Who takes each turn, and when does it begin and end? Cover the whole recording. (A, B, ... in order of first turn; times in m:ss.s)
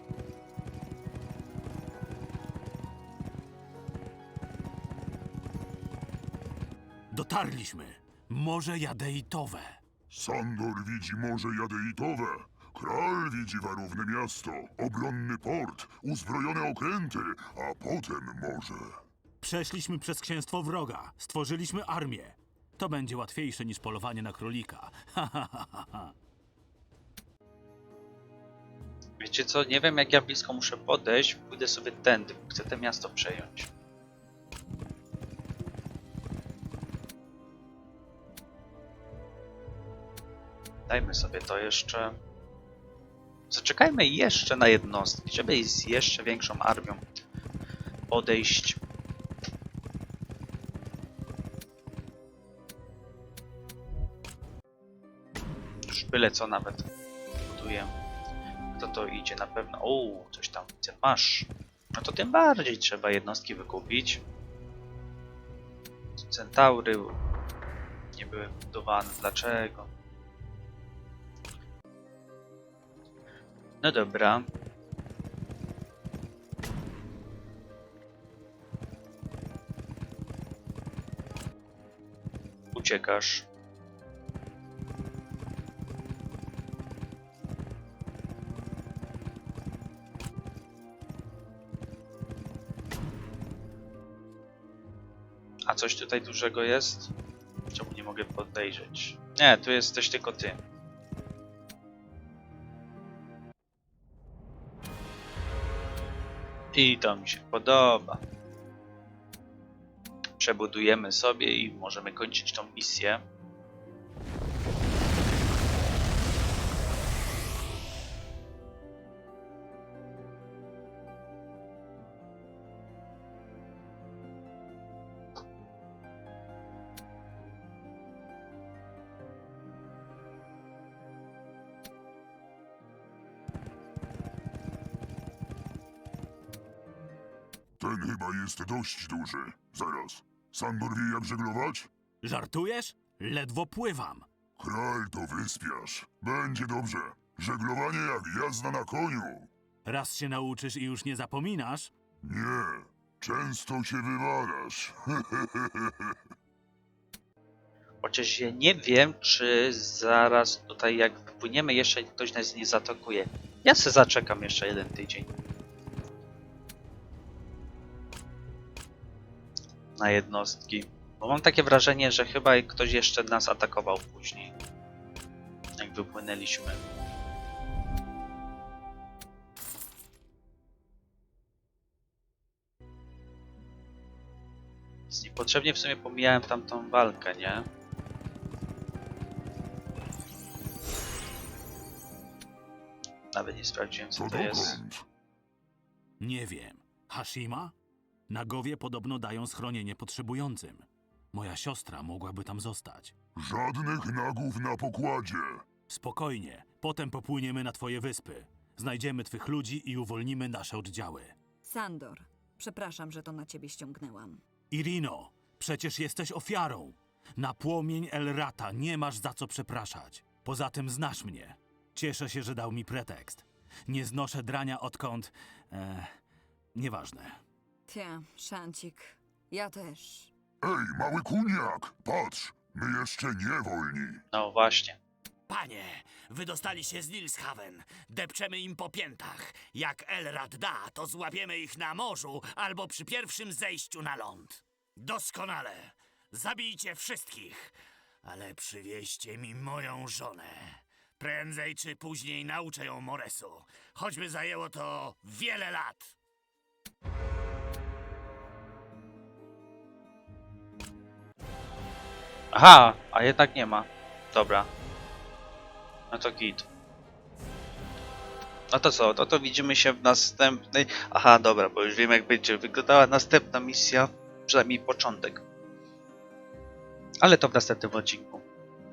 0:07.1-0:09.8 A
0:10.1-0:19.0 B
0:19.4-0:26.1 A
0:29.2-0:33.7 C
0:40.9-0:42.1 C
0:43.5-0:47.0 C
0:48.1-0:48.8 C
0:55.9-0:56.9 C
0:57.5-0:57.9 C
0:58.8-1:04.2 C
1:06.2-1:07.2 C
1:08.2-1:09.9 C
1:13.8-1:14.4 C
1:22.8-1:23.5 C
1:35.7-1:37.1 C
1:37.7-1:40.6 C
1:46.7-1:48.2 C
1:50.4-1:53.2 C
2:17.8-2:21.9 B
2:22.2-2:24.2 A
2:24.6-2:29.5 B
2:29.8-2:31.9 A
2:32.2-2:36.2 B
2:38.0-2:45.3 C
2:50.0-2:54.5 C
2:55.8-2:56.8 C
3:05.1-3:07.7 C
3:13.3-3:14.8 C
3:14.2-3:15.0 B
3:16.2-3:17.7 A
3:18.3-3:23.1 A
3:23.4-3:25.7 B
3:25.9-3:31.3 A
3:31.6-3:34.4 D
3:34.7-3:46.1 A
3:46.8-3:47.4 A
3:47.9-3:50.3 D
3:50.6-3:54.2 B
3:54.3-3:55.0 C
3:55.5-4:16.2 E
4:22.5-4:24.7 C
4:26.1-4:26.7 C
4:28.7-4:35.4 C
4:37.2-4:38.4 C